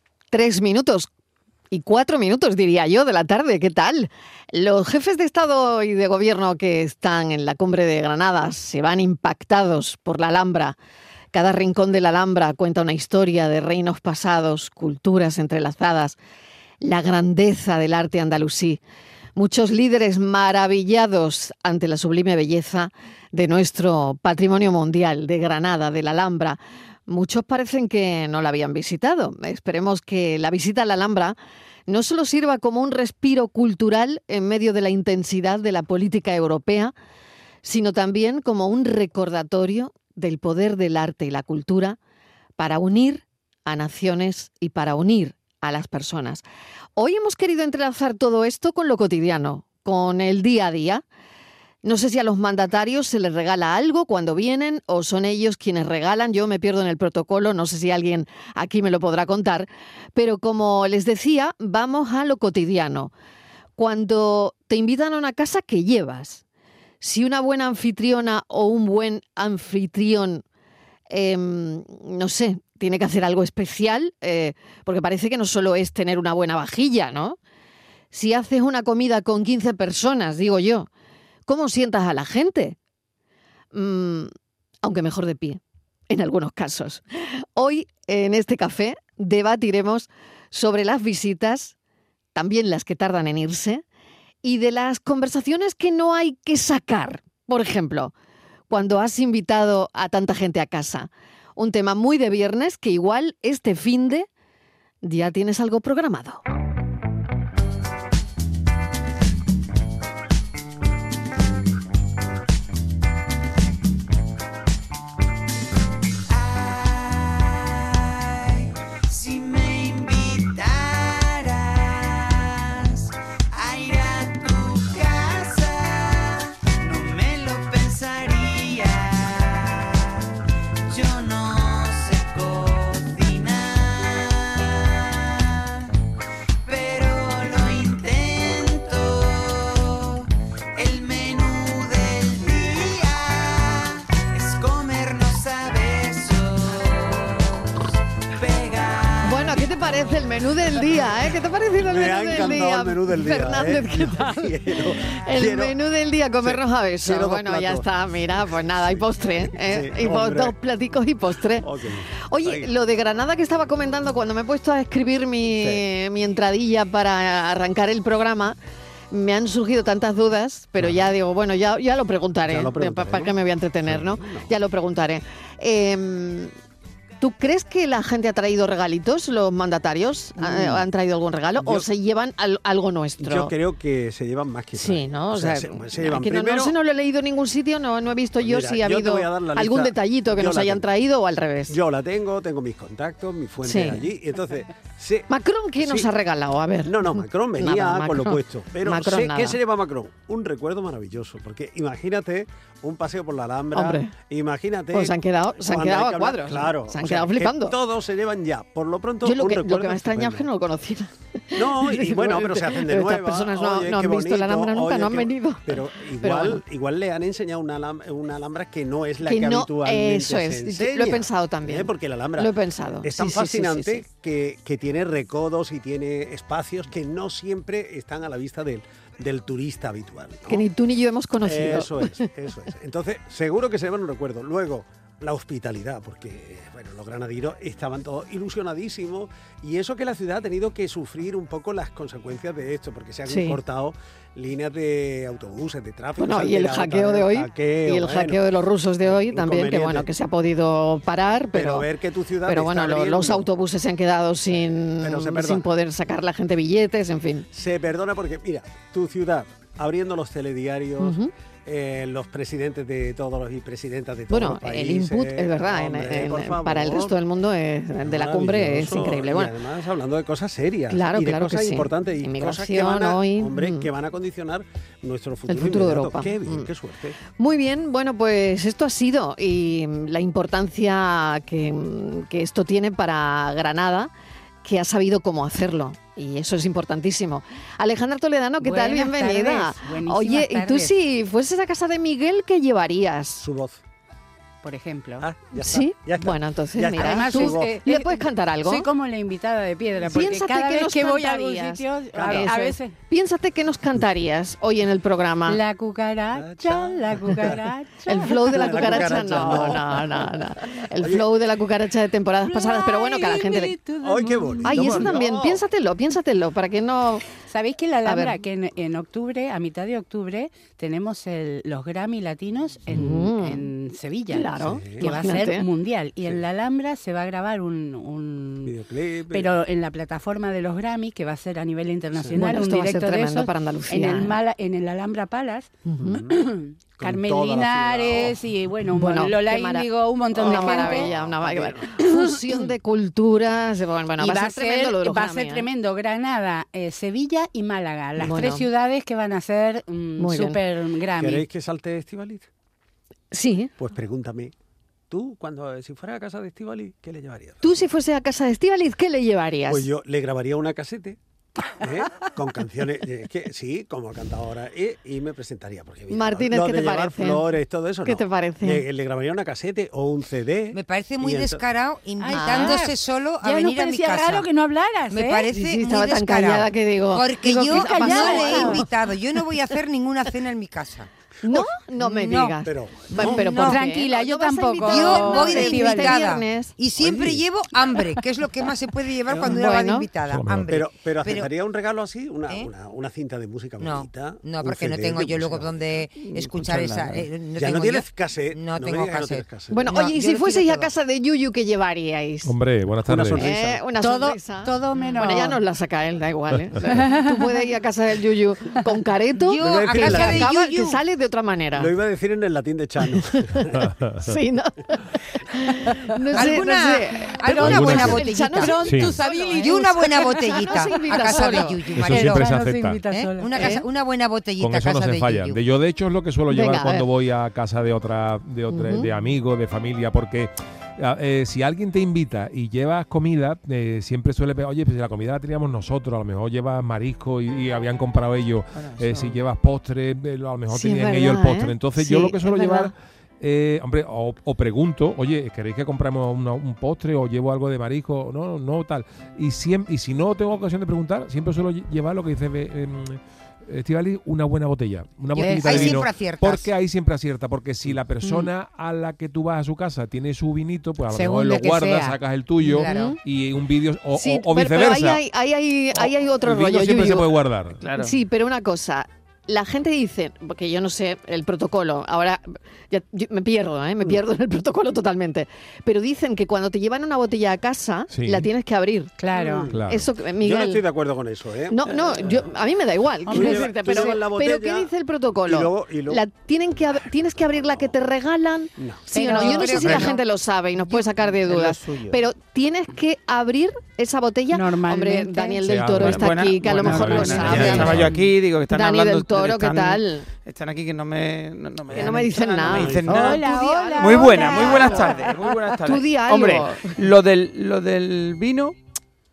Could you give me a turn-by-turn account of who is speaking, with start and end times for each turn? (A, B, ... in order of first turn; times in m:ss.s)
0:00.3-0:01.1 A
0:01.7-0:10.8 A
0:11.3-0:16.2 A
0:16.8-0:18.8 A
0:19.4-0:31.4 A
0:31.9-0:36.9 A
0:37.6-0:42.0 A
0:42.6-0:46.4 A
0:47.0-0:51.0 A
0:51.8-1:03.1 A
1:03.8-1:06.4 A
1:07.0-1:10.4 A
1:11.1-1:17.4 A
1:18.1-1:20.9 A
1:21.5-1:22.8 A
1:23.7-1:24.3 A
1:24.8-1:31.8 A
1:32.3-1:33.8 A
1:34.4-1:38.1 A
1:38.7-1:44.3 A
1:45.0-1:46.4 A
1:56.3-1:57.4 B
1:58.1-2:10.0 B
2:10.9-2:14.9 B
2:16.7-2:27.6 B
2:28.4-2:29.3 B
2:29.2-2:41.6 A
2:31.8-2:35.7 C
2:36.4-2:37.8 C
2:38.8-2:40.5 C
2:41.6-2:42.6 C
2:42.3-2:48.6 A
2:49.1-2:56.5 A
2:52.5-2:53.3 C
2:53.9-2:54.5 C
2:57.2-3:03.5 A
3:00.4-3:00.8 C
3:01.6-3:01.8 C
3:03.2-3:06.8 C
3:04.8-3:11.8 A
3:08.4-3:10.9 C
3:11.7-3:15.3 C
3:13.6-3:14.1 A
3:15.3-3:19.6 A
3:15.8-3:16.1 C
3:16.8-3:30.5 C
3:23.8-3:24.1 A
3:24.9-3:27.8 A
3:29.2-3:36.6 A
3:31.6-3:42.5 C
3:39.2-3:44.0 A
3:43.0-3:50.6 C
3:50.5-3:52.2 A
3:51.4-4:08.4 C
4:03.3-4:03.6 A
4:06.2-4:11.9 A
4:09.3-4:10.1 C
4:11.5-4:13.5 C
4:12.5-4:17.4 A
4:15.0-4:15.6 C
4:17.5-4:27.2 C
4:21.0-4:21.3 A
4:24.3-4:29.5 A
4:28.0-4:37.2 C
4:30.9-4:33.9 A
4:35.5-4:36.7 A
4:37.3-4:44.1 A
4:44.6-4:53.4 A
4:48.6-4:50.9 D
4:53.4-4:53.8 C
4:54.6-4:55.3 D
4:55.2-4:57.8 C
4:55.6-4:58.9 A
4:57.0-5:02.9 D
5:00.1-5:05.6 A
5:02.1-5:02.5 C
5:05.4-5:09.4 D
5:06.3-5:07.6 C
5:08.1-5:13.8 A
5:08.3-5:10.4 C
5:11.0-5:11.2 C
5:12.4-5:15.2 D
5:14.0-5:15.6 C
5:14.6-5:17.2 A
5:17.4-5:28.8 D
5:18.0-5:18.4 A
5:22.9-5:23.6 A
5:24.3-5:25.6 A
5:24.6-5:25.1 C
5:28.6-5:29.6 C
5:29.3-5:41.1 D
5:32.3-5:34.4 A
5:35.8-5:36.2 A
5:36.0-5:36.4 C
5:37.0-5:38.4 C
5:38.9-5:45.7 A
5:40.4-5:41.9 C
5:42.1-5:42.6 D
5:44.2-5:51.4 D
5:48.2-5:48.6 A
5:50.2-5:50.6 A
5:51.2-5:52.5 C
5:53.3-5:53.7 A
5:53.8-5:54.5 C
5:55.1-5:57.7 C
5:57.6-5:59.9 A
5:59.7-6:01.2 C
6:01.7-6:11.6 C
6:06.1-6:07.4 A
6:08.1-6:08.8 A
6:10.7-6:14.5 E
6:12.2-6:15.4 D
6:12.3-6:12.8 A
6:15.1-6:21.1 E
6:15.5-6:18.8 A
6:17.4-6:18.9 D
6:21.4-6:26.7 A
6:22.0-6:22.6 E
6:22.6-6:23.4 C
6:23.1-6:23.8 E
6:23.4-6:26.3 D
6:24.9-6:31.5 E
6:27.0-6:27.4 C
6:29.4-6:30.1 A
6:30.3-6:30.7 F
6:30.7-6:36.0 C
6:33.8-6:40.9 E
6:36.2-6:37.2 G
6:37.6-6:40.1 C
6:39.7-6:42.5 A
6:42.4-6:43.4 F
6:43.1-6:43.8 C
6:43.4-6:51.9 A
6:44.0-6:45.6 D
6:46.9-6:47.4 D
6:49.4-6:51.0 E
6:49.6-6:50.4 C
6:51.8-6:53.8 C
6:53.4-6:53.7 A
6:53.8-6:54.3 F
6:54.2-7:01.8 A
6:56.3-6:59.0 E
6:57.4-7:03.8 D
6:57.6-6:58.2 F
6:58.8-6:59.1 F
6:59.6-7:02.5 E
7:01.9-7:03.0 F
7:03.1-7:05.6 E
7:03.6-7:03.8 A
7:04.6-7:45.2 F
7:06.5-7:07.0 A
7:08.7-7:09.1 A
7:18.8-7:19.4 A
7:20.7-7:22.9 A
7:35.3-7:36.7 E
7:35.4-7:36.0 D
7:41.1-7:42.2 D
7:42.6-7:43.2 E
7:42.7-7:43.2 A
7:44.1-7:47.3 A
7:45.9-7:47.8 F
7:47.8-7:48.2 G
7:48.0-7:59.1 A
7:58.1-7:58.5 F
7:59.2-7:59.7 D
7:59.3-7:59.8 C
7:59.7-8:00.1 F
7:59.9-8:00.8 A
8:00.4-8:01.8 C
8:01.7-8:18.0 A
8:02.1-8:02.4 G
8:03.3-8:03.7 D
8:03.3-8:04.9 C
8:05.4-8:06.2 C
8:09.1-8:10.1 D
8:09.4-8:10.2 E
8:09.6-8:10.1 G
8:11.1-8:12.2 G
8:14.5-8:15.7 D
8:15.6-8:18.2 F
8:16.0-8:28.8 G
8:17.4-8:18.0 E
8:18.7-8:20.2 A
8:21.9-8:23.4 C
8:21.9-8:25.2 A
8:23.1-8:25.3 D
8:25.8-8:27.0 A